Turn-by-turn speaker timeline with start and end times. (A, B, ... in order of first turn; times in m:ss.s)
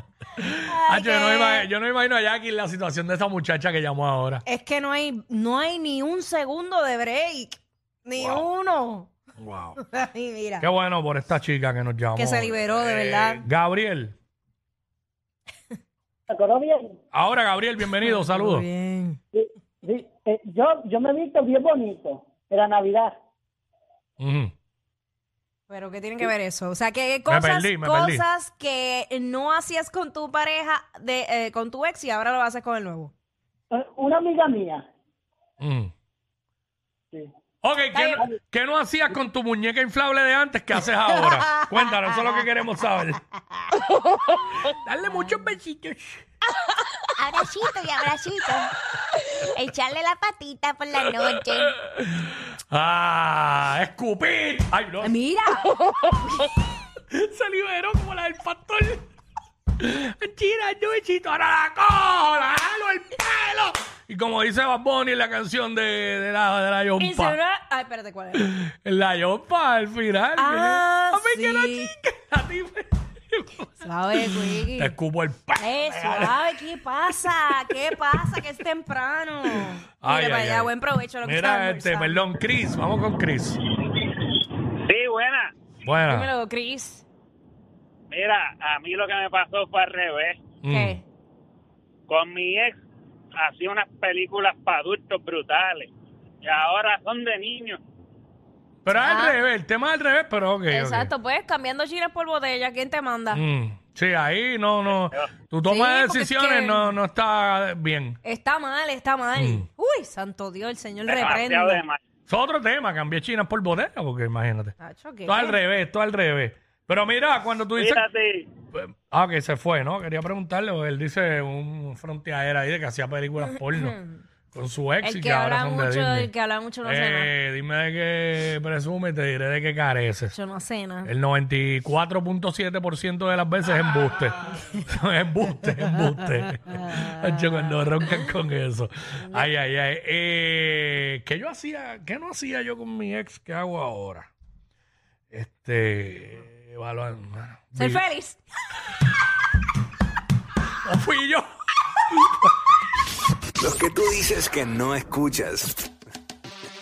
0:00.4-0:04.4 A
0:00.6-0:01.7 B
0:04.4-0:09.1 B
0:08.2-0:08.4 A
0:09.4-0:09.8 A
0:09.8-0:10.7 B
0:10.6-0:14.1 A
0:12.1-0:13.4 B
0:16.3-0:16.9 C
0:17.1-0:18.6 A
0:18.0-0:19.2 B
0:19.3-0:23.2 C
0:24.2-0:24.5 A
0:25.7-0:33.1 B
0:27.3-0:28.2 A
0:33.7-0:34.8 C
0:35.6-0:35.9 A
0:37.6-0:43.2 A
0:37.9-0:38.2 B
0:44.7-0:46.2 A
0:47.2-0:48.7 D
0:49.5-0:51.7 D
0:51.1-0:55.1 A
0:55.0-0:55.7 B
0:57.1-0:59.0 A
0:59.8-1:07.4 A
1:07.0-1:08.4 B
1:08.3-1:16.4 A
1:10.4-1:11.9 B
1:13.8-1:14.9 B
1:15.6-1:22.3 B
1:17.3-1:17.7 A
1:20.0-1:20.7 A
1:21.2-1:23.6 A
1:24.8-1:25.5 E
1:25.8-1:26.3 A
1:26.0-1:27.0 B
1:28.1-1:30.4 E
1:30.6-1:31.0 A
1:30.7-1:31.0 B
1:32.1-1:32.8 E
1:33.3-1:35.9 E
1:36.4-1:37.8 E
1:38.8-1:41.1 A
1:38.9-1:39.4 B
1:40.7-1:43.4 B
1:43.3-1:48.2 A
1:45.6-1:46.9 B
1:48.2-1:51.8 B
1:49.4-1:49.6 A
1:51.1-1:52.0 E
1:52.3-1:58.0 A
1:54.8-1:55.6 B
1:57.8-1:58.5 E
1:58.7-2:04.0 A
2:03.4-2:04.2 B
2:04.5-2:06.3 A
2:05.0-2:07.3 B
2:06.8-2:10.4 A
2:10.3-2:11.1 B
2:11.0-2:24.3 A
2:25.3-2:28.0 A
2:27.8-2:28.4 B
2:30.8-2:31.5 A
2:32.1-2:32.5 A
2:33.6-2:35.7 F